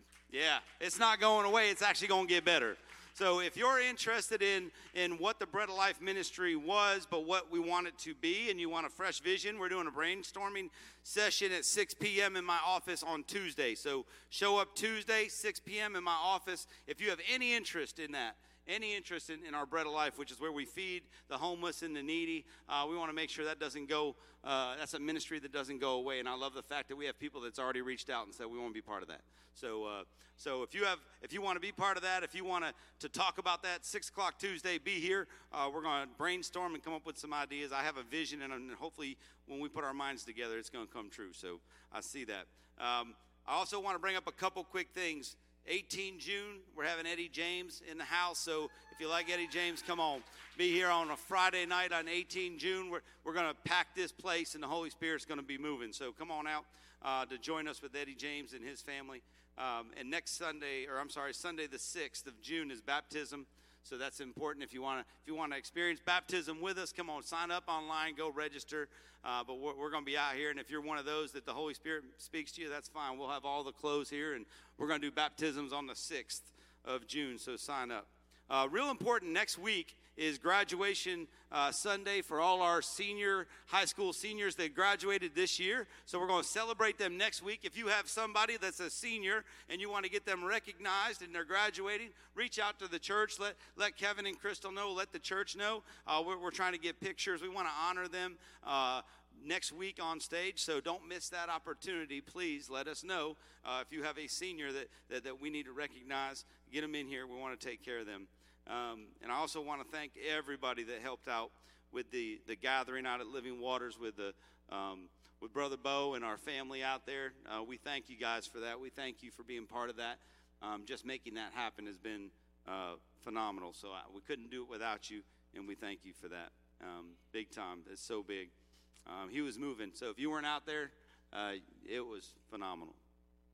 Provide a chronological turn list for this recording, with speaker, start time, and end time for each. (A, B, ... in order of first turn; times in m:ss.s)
0:00.3-2:08.5 A
2:09.0-2:13.0 A